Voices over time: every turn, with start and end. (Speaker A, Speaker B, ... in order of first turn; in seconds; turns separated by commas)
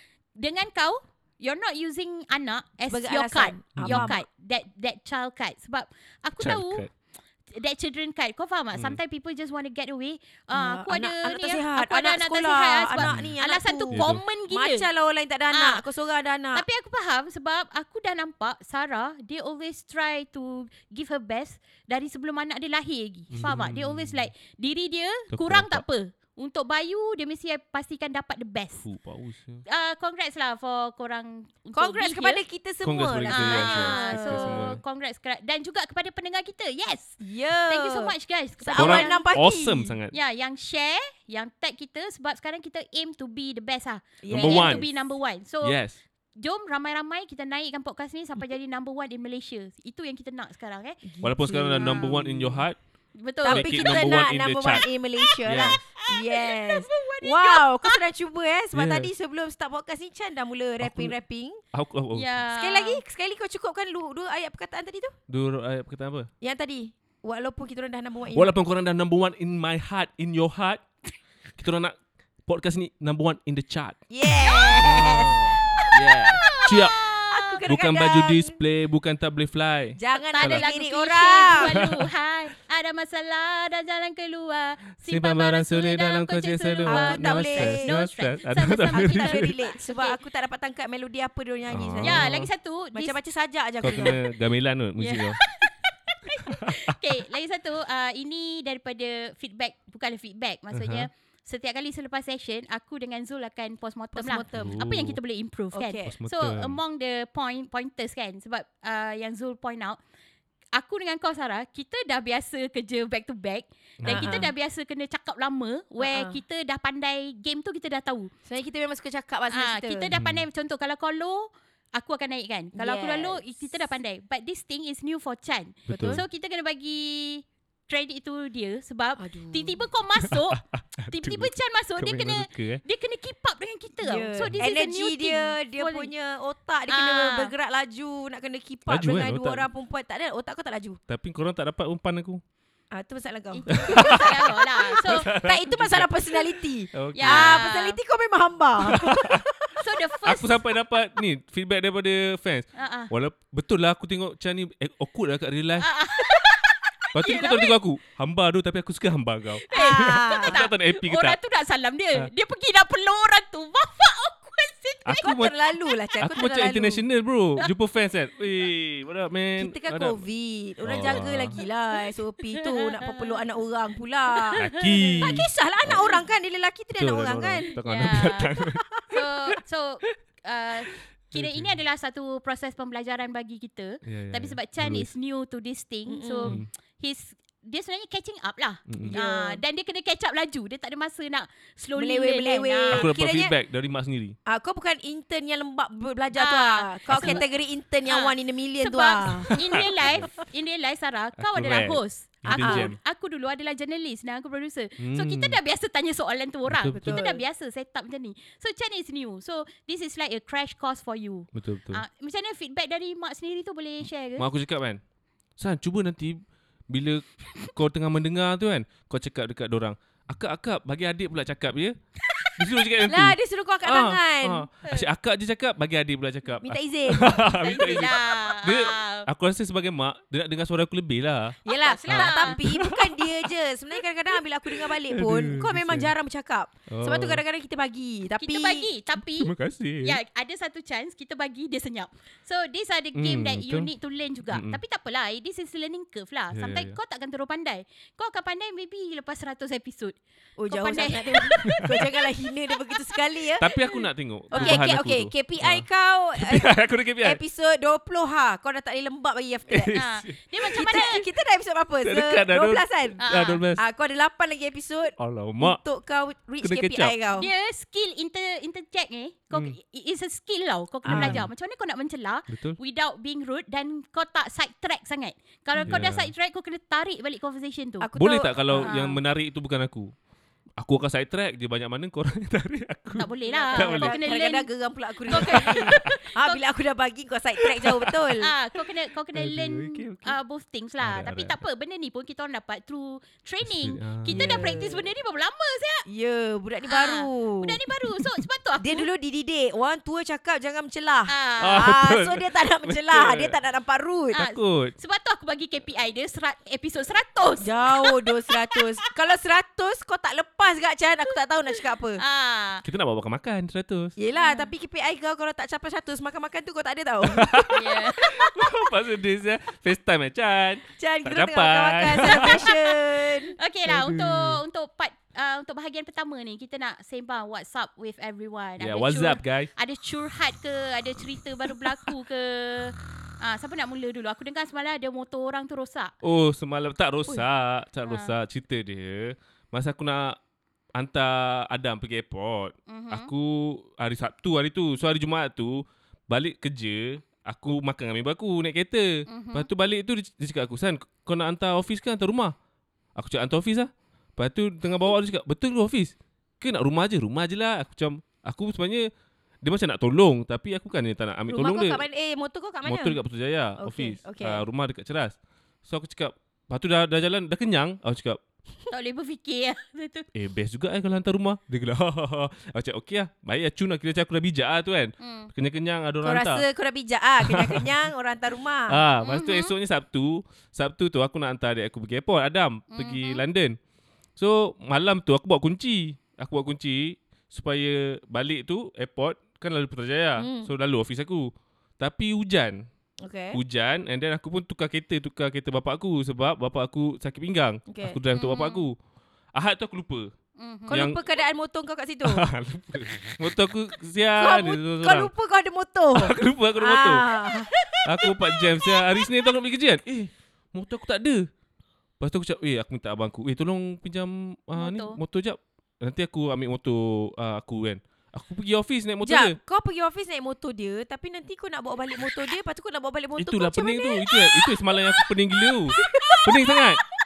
Speaker A: 0.4-6.9, Speaker B: 2.9-4.2, Speaker C: 3.8-4.1, Speaker C: 6.4-6.9, Speaker A: 7.5-14.9, Speaker B: 10.5-16.6, Speaker C: 13.0-13.3, Speaker C: 13.9-14.2, Speaker A: 15.5-15.8, Speaker A: 16.5-28.8, Speaker C: 23.3-24.3, Speaker C: 25.3-25.8, Speaker C: 28.8-29.6, Speaker A: 29.7-32.4, Speaker B: 31.8-34.7, Speaker C: 32.8-34.8, Speaker A: 33.3-39.3, Speaker B: 37.2-39.9, Speaker C: 38.8-40.1, Speaker A: 40.1-45.8, Speaker B: 44.2-44.9, Speaker C: 44.3-44.9, Speaker C: 45.6-46.0, Speaker A: 46.4-51.0, Speaker B: 51.1-52.6, Speaker C: 51.2-52.8, Speaker A: 53.2-54.8, Speaker C: 53.4-54.9, Speaker B: 53.4-61.6, Speaker C: 55.4-55.8, Speaker A: 55.6-58.0, Speaker C: 58.7-59.1, Speaker C: 60.8-61.1, Speaker C: 61.7-62.3, Speaker A: 62.1-63.0, Speaker B: 62.5-65.2, Speaker C: 65.3-66.3, Speaker B: 66.4-68.5, Speaker C: 68.3-70.8, Speaker C: 71.6-74.0, Speaker B: 74.1-78.6, Speaker A: 74.4-74.8, Speaker C: 74.8-77.0, Speaker A: 76.4-77.6, Speaker C: 77.7-80.7, Speaker B: 80.0-81.7, Speaker A: 80.3-90.2, Speaker C: 81.6-82.1, Speaker C: 85.1-89.5, Speaker B: 86.9-88.0, Speaker B: 88.9-92.3, Speaker C: 91.7-92.5, Speaker A: 92.0-93.2, Speaker B: 92.9-94.2, Speaker C: 93.8-95.4, Speaker A: 95.0-110.0, Speaker C: 96.6-96.9, Speaker C: 100.7-101.1, Speaker B: 104.2-104.9, Speaker C: 104.5-105.2, Speaker B: 105.7-106.1, Speaker C: 106.1-106.8, Speaker A: 110.7-118.3, Speaker C: 114.0-114.5, Speaker B: 114.0-114.5, Speaker B: 116.0-116.4, Speaker B: 118.5-120.1, Speaker A: 119.5-136.1, Speaker C: 120.1-120.4, Speaker B: 122.7-123.4, Speaker C: 125.9-126.2, Speaker B: 125.9-126.2, Speaker B: 129.2-129.8, Speaker C: 130.2-132.8, Speaker B: 134.0-141.0, Speaker A: 136.9-137.5, Speaker C: 138.9-139.7, Speaker C: 141.1-142.4, Speaker B: 142.9-149.7, Speaker A: 143.5-145.3, Speaker C: 143.7-144.3, Speaker C: 145.0-147.6, Speaker A: 147.1-148.0, Speaker C: 148.8-149.4, Speaker A: 149.8-150.6, Speaker C: 150.2-155.9, Speaker A: 152.8-153.1, Speaker A: 155.8-157.8, Speaker C: 157.1-161.4, Speaker A: 159.7-165.4, Speaker B: 159.7-160.6, Speaker C: 165.1-165.6, Speaker B: 165.2-167.0, Speaker C: 166.2-170.2, Speaker B: 169.6-174.6, Speaker C: 170.8-171.6, Speaker A: 172.6-173.4, Speaker A: 174.5-175.4, Speaker C: 174.6-176.2, Speaker B: 175.2-177.7, Speaker C: 176.9-179.0, Speaker A: 177.8-178.5, Speaker A: 179.1-193.1, Speaker C: 181.3-181.8, Speaker C: 184.0-185.1, Speaker B: 186.1-186.6, Speaker C: 188.9-189.2, Speaker B: 189.0-189.6, Speaker B: 192.0-193.5, Speaker C: 192.9-194.4, Speaker B: 194.5-199.8, Speaker A: 196.3-197.4, Speaker C: 197.1-197.4, Speaker A: 198.1-214.5, Speaker C: 199.4-200.3, Speaker C: 201.4-203.0, Speaker B: 202.5-202.9, Speaker C: 205.0-205.6, Speaker C: 206.7-207.2, Speaker B: 206.9-207.4, Speaker C: 211.5-212.0, Speaker C: 214.4-215.0, Speaker C: 215.6-221.9, Speaker C: 222.6-231.6, Speaker B: 223.1-224.7, Speaker B: 226.6-227.4, Speaker A: 227.5-229.3, Speaker B: 231.7-238.9, Speaker A: 231.7-232.6, Speaker C: 232.1-233.5, Speaker C: 234.7-236.1, Speaker C: 236.9-237.4, Speaker A: 238.4-252.2, Speaker C: 239.3-240.2, Speaker C: 243.2-243.9, Speaker C: 244.5-244.8, Speaker C: 246.5-247.0, Speaker B: 250.6-253.7, Speaker C: 253.6-257.4, Speaker A: 254.5-254.9, Speaker B: 254.6-260.0, Speaker C: 259.7-260.4, Speaker A: 259.9-261.2, Speaker B: 260.7-263.2, Speaker C: 262.0-263.8, Speaker A: 263.2-263.6, Speaker B: 263.8-267.5, Speaker C: 265.2-265.8, Speaker C: 266.6-267.1, Speaker A: 267.4-278.1, Speaker B: 271.0-271.4, Speaker C: 271.1-271.5, Speaker C: 272.5-272.8, Speaker C: 275.8-276.3, Speaker B: 278.0-278.9, Speaker C: 278.2-280.1, Speaker A: 278.8-279.2, Speaker C: 280.8-284.2, Speaker A: 283.2-284.7, Speaker B: 283.5-288.5, Speaker A: 285.3-286.6, Speaker C: 285.3-286.1, Speaker C: 287.9-288.3, Speaker A: 288.4-296.1, Speaker C: 289.4-290.4, Speaker C: 291.0-291.6, Speaker C: 293.6-295.0, Speaker B: 294.3-295.0, Speaker B: 296.1-297.8, Speaker A: 296.9-299.1, Speaker B: 298.8-304.4, Speaker A: 301.3-301.9, Speaker C: 301.6-303.6, Speaker A: 304.3-308.8, Speaker C: 304.4-304.9, Speaker B: 307.6-312.2, Speaker A: 312.2-312.8, Speaker C: 312.9-314.1, Speaker B: 314.2-318.7, Speaker A: 314.4-314.7, Speaker C: 317.3-322.7, Speaker A: 317.7-318.2, Speaker B: 321.0-323.6, Speaker A: 322.2-322.7, Speaker A: 323.6-336.1, Speaker C: 323.9-324.6, Speaker C: 328.8-329.7, Speaker C: 336.2-340.4, Speaker A: 338.1-338.3, Speaker C: 340.9-352.5, Speaker A: 342.9-343.3, Speaker A: 349.3-349.7, Speaker C: 353.2-359.1, Speaker C: 359.6-362.0, Speaker B: 361.5-363.2, Speaker C: 362.9-368.4, Speaker B: 363.8-364.6, Speaker A: 368.9-370.3, Speaker C: 370.3-376.6, Speaker A: 375.2-375.5, Speaker B: 376.2-379.0, Speaker C: 377.4-377.9, Speaker C: 378.9-383.8, Speaker A: 379.2-379.7, Speaker A: 382.9-383.4, Speaker C: 384.4-392.9, Speaker B: 390.4-390.7, Speaker B: 393.2-393.6, Speaker C: 393.5-398.9, Speaker B: 397.9-398.2, Speaker A: 398.3-398.9, Speaker C: 399.6-400.3, Speaker A: 400.6-401.1, Speaker B: 400.9-402.4, Speaker C: 400.9-401.2, Speaker C: 402.2-405.3, Speaker B: 404.4-407.7, Speaker C: 406.1-407.2, Speaker C: 408.0-411.5, Speaker C: 412.2-419.6, Speaker A: 414.8-415.2, Speaker B: 419.2-425.3, Speaker C: 423.4-427.1, Speaker B: 426.0-426.9